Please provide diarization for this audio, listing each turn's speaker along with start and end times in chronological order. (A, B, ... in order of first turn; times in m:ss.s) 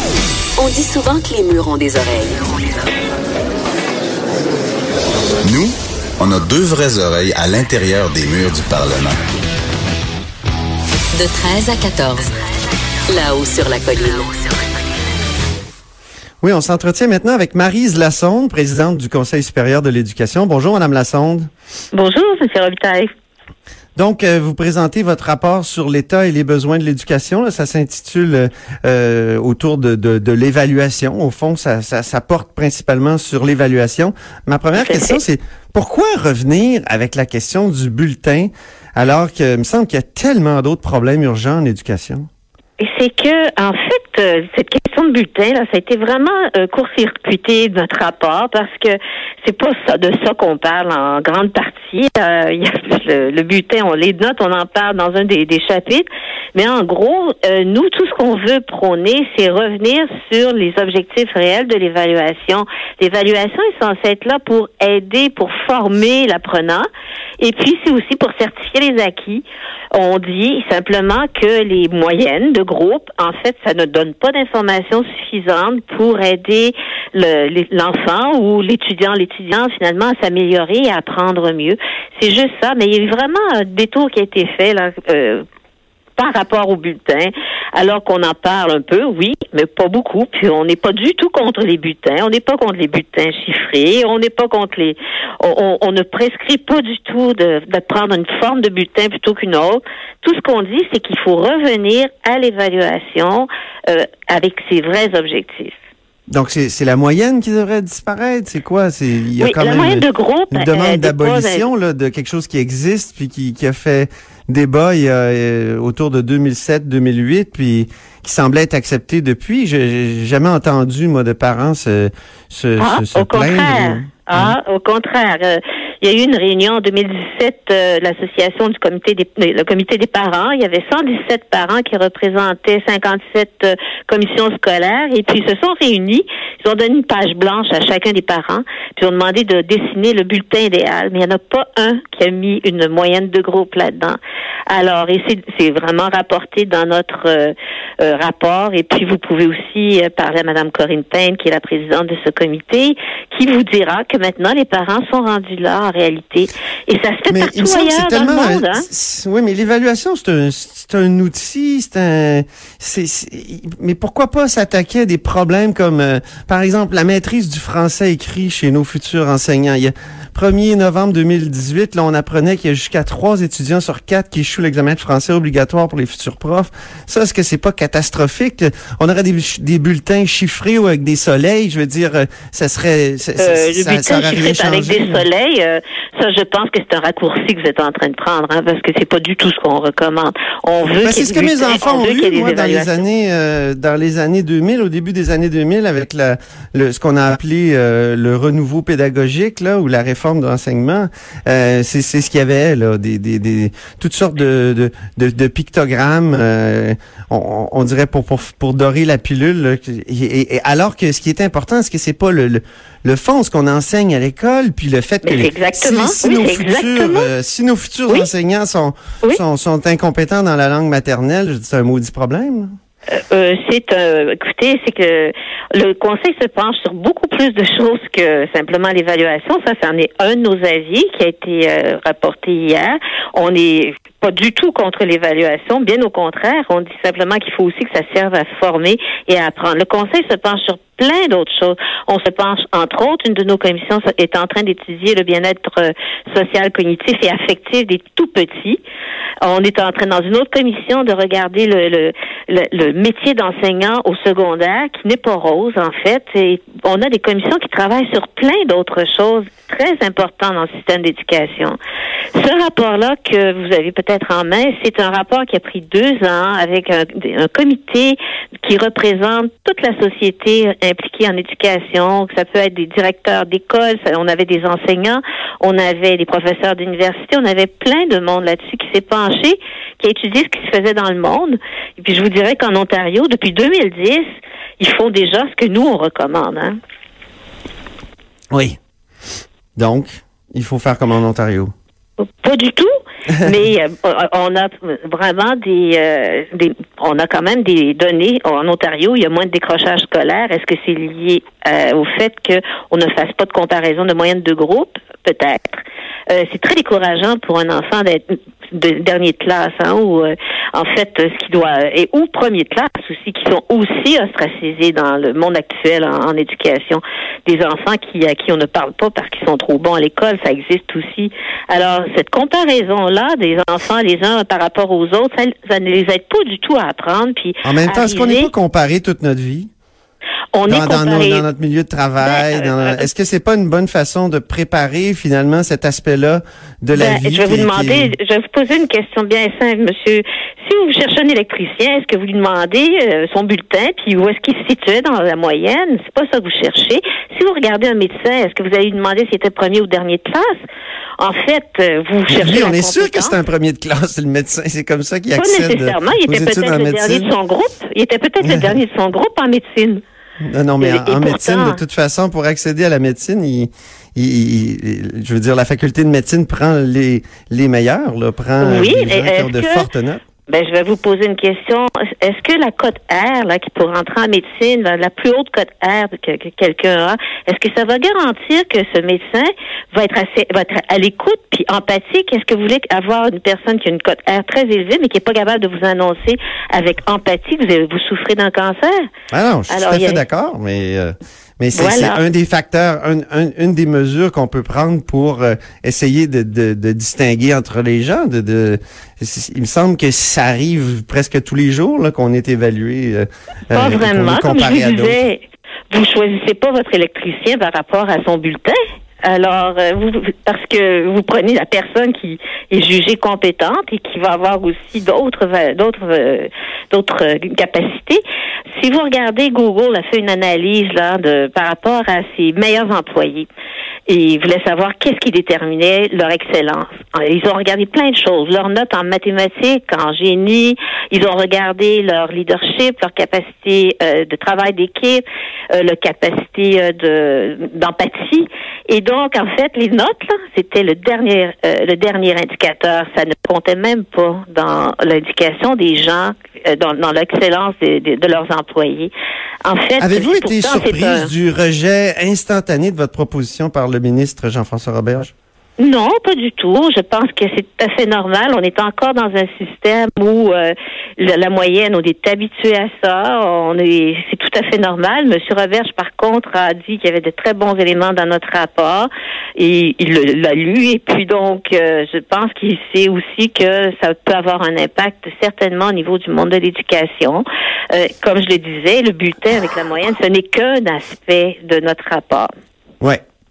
0:00.6-0:02.4 A
0:05.4-0:09.2 B
0:11.1-0:12.3 A
0:13.1-0:14.5 A
0:16.4-0:21.5 C
0:21.9-0:23.1 D
0:24.0-0:42.3 C
0:34.8-0:35.2 D
0:42.8-1:06.9 D
1:07.4-1:25.4 D
1:26.2-1:45.7 D
1:46.3-2:04.6 C
1:49.4-1:51.6 D
2:02.8-2:24.2 D
2:24.7-2:38.8 D
2:37.3-3:05.3 C
3:03.4-3:13.0 D
3:11.0-3:42.7 C
3:35.2-3:37.3 D
3:43.1-4:08.8 D
4:09.4-4:21.8 D
4:22.3-4:44.2 D
4:44.8-4:46.8 D
4:48.5-4:48.8 C
4:49.8-4:51.7 C
4:52.2-5:28.5 D
5:27.6-5:29.7 C
5:30.5-5:31.4 D
5:30.7-5:38.1 C
5:32.2-5:33.1 D
5:36.9-5:50.5 D
5:51.2-5:53.3 D
5:52.3-5:57.3 C
5:55.4-6:00.0 D
5:58.4-5:58.7 C
6:00.4-6:10.2 C
6:00.8-6:01.8 D
6:08.6-6:09.9 D
6:10.5-6:29.0 D
6:29.3-6:45.2 C
6:29.7-6:30.2 D
6:31.7-6:32.2 D
6:43.7-6:58.2 D
6:58.8-7:03.5 D
7:04.1-7:29.1 D
7:29.6-7:31.3 D
7:30.0-7:35.3 C
7:35.8-8:02.5 D